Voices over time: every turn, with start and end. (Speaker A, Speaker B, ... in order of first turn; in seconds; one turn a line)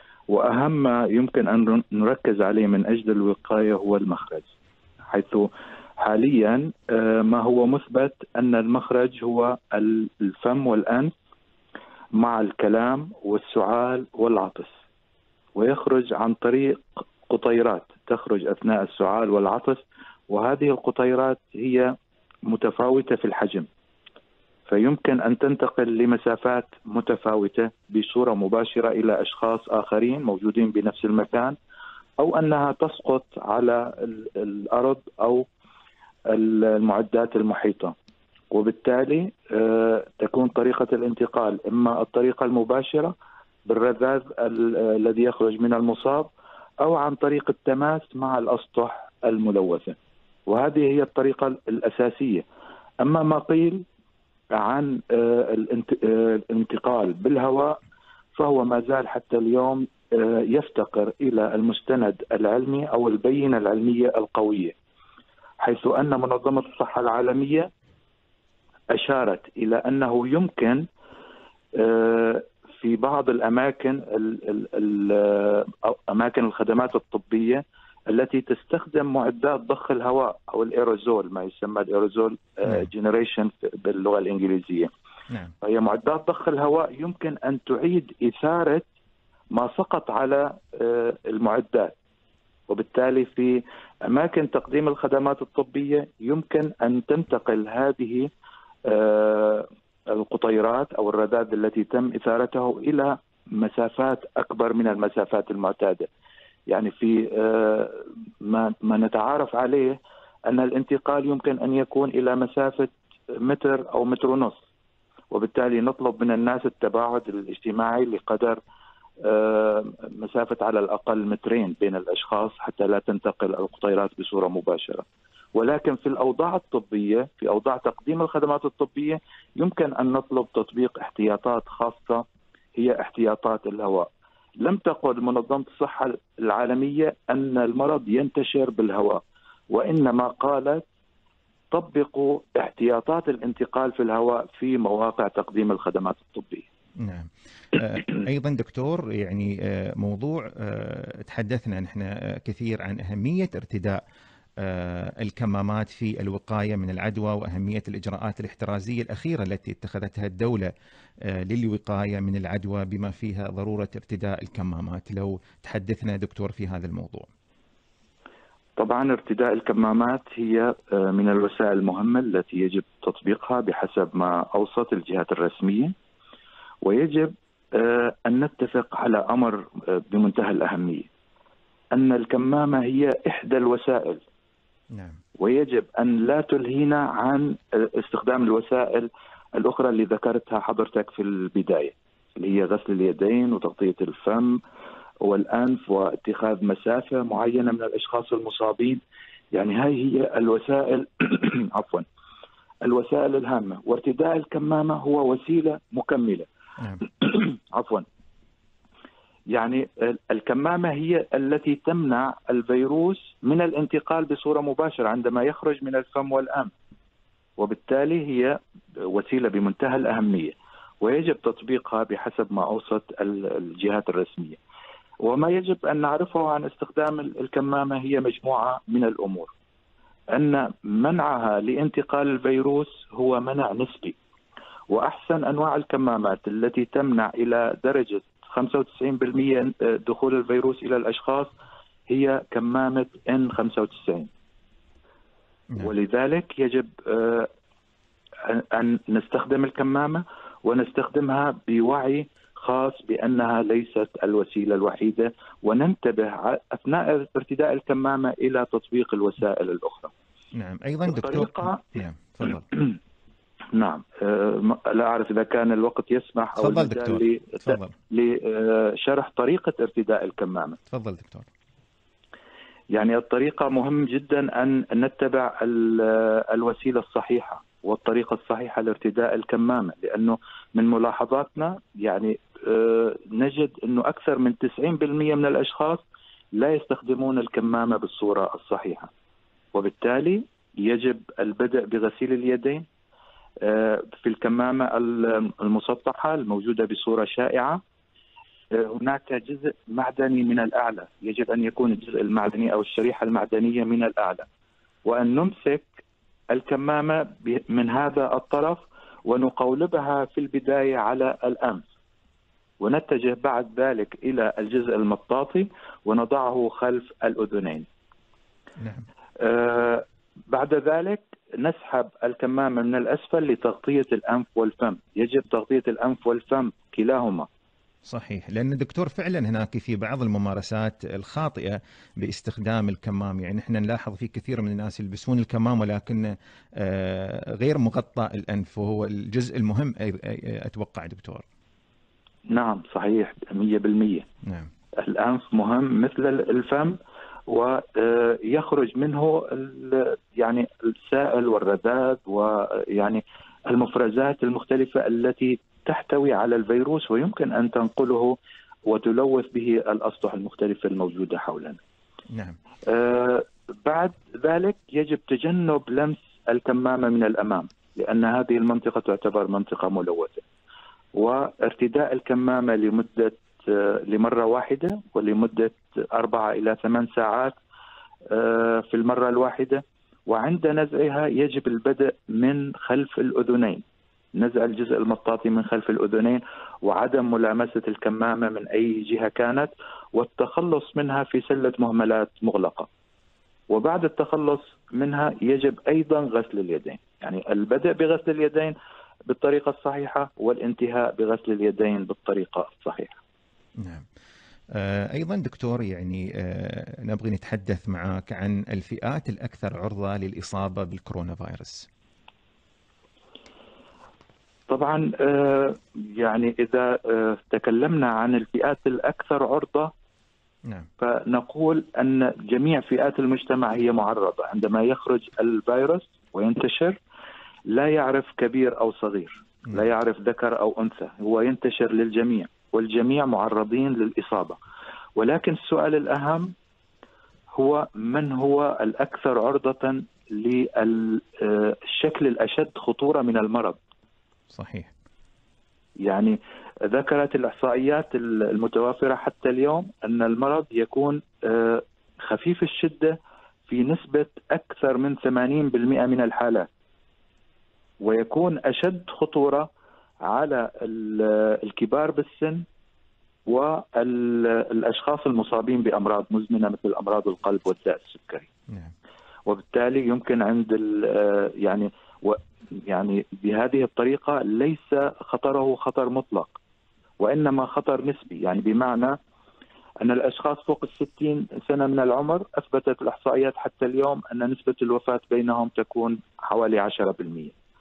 Speaker A: 0.3-4.5
Speaker A: 5.1-11.1
Speaker A: 12.2-14.7
Speaker A: 15.6-21.9
Speaker A: 22.5-23.7
Speaker A: 24.7-31.6
Speaker A: 32.2-35.4
Speaker A: 36.3-37.9
Speaker A: 38.5-43.1
Speaker A: 43.7-46.3
Speaker A: 46.8-50.0
Speaker A: 50.5-52.4
Speaker A: 53.0-53.8
Speaker A: 54.5-57.8
Speaker A: 58.4-64.7
Speaker A: 65.6-67.7
Speaker A: 68.9-70.8
Speaker A: 71.7-84.9
Speaker A: 85.6-88.8
Speaker A: 89.5-92.0
Speaker A: 92.7-98.3
Speaker A: 98.8-106.1
Speaker A: 106.7-110.0
Speaker A: 110.5-114.6
Speaker A: 115.3-118.6
Speaker A: 119.2-125.0
Speaker A: 125.5-132.2
Speaker A: 132.8-134.1
Speaker A: 134.6-140.8
Speaker A: 141.7-146.7
Speaker B: 147.0-154.0
Speaker B: 154.6-160.7
Speaker B: 161.2-167.3
Speaker A: 168.8-175.9
Speaker A: 176.8-181.1
Speaker A: 181.9-184.2
Speaker B: 184.9-185.2
Speaker A: 185.4-194.6
Speaker A: 195.2-199.0
Speaker A: 199.5-202.0
Speaker A: 202.8-206.4
Speaker A: 207.0-208.0
Speaker A: 209.5-216.7
Speaker A: 217.6-218.6
Speaker A: 219.1-224.6
Speaker A: 225.2-229.5
Speaker A: 230.3-234.2
Speaker A: 234.9-241.5
Speaker A: 242.1-244.3
Speaker A: 245.8-247.5
Speaker A: 248.4-260.1
Speaker B: 260.5-262.6
Speaker A: 261.1-261.8
Speaker A: 263.7-270.8
Speaker B: 266.6-268.0
Speaker B: 270.9-271.5
Speaker A: 272.9-286.0
Speaker A: 286.6-289.1
Speaker A: 289.7-292.8
Speaker A: 293.6-297.8
Speaker A: 298.7-304.4
Speaker A: 305.0-305.9
Speaker A: 306.5-311.8
Speaker A: 312.8-317.9
Speaker B: 318.8-319.1
Speaker A: 319.4-327.5
Speaker B: 328.1-341.4
Speaker A: 342.5-344.2
Speaker B: 344.4-344.7
Speaker A: 345.0-361.8
Speaker B: 362.3-362.6
Speaker A: 362.9-370.4
Speaker A: 371.1-377.6
Speaker A: 378.3-383.8
Speaker A: 384.3-392.9
Speaker A: 393.7-398.7
Speaker A: 399.3-403.2
Speaker B: 403.8-404.1
Speaker B: 404.7-411.9
Speaker A: 414.7-419.9
Speaker A: 421.0-427.0
Speaker A: 427.7-434.6
Speaker A: 435.2-436.5
Speaker A: 437.5-443.8
Speaker B: 444.5-444.9
Speaker A: 446.0-456.7
Speaker A: 458.0-459.7
Speaker A: 460.2-462.6
Speaker A: 463.5-468.5
Speaker A: 469.5-476.6
Speaker A: 477.2-479.2
Speaker A: 480.0-487.5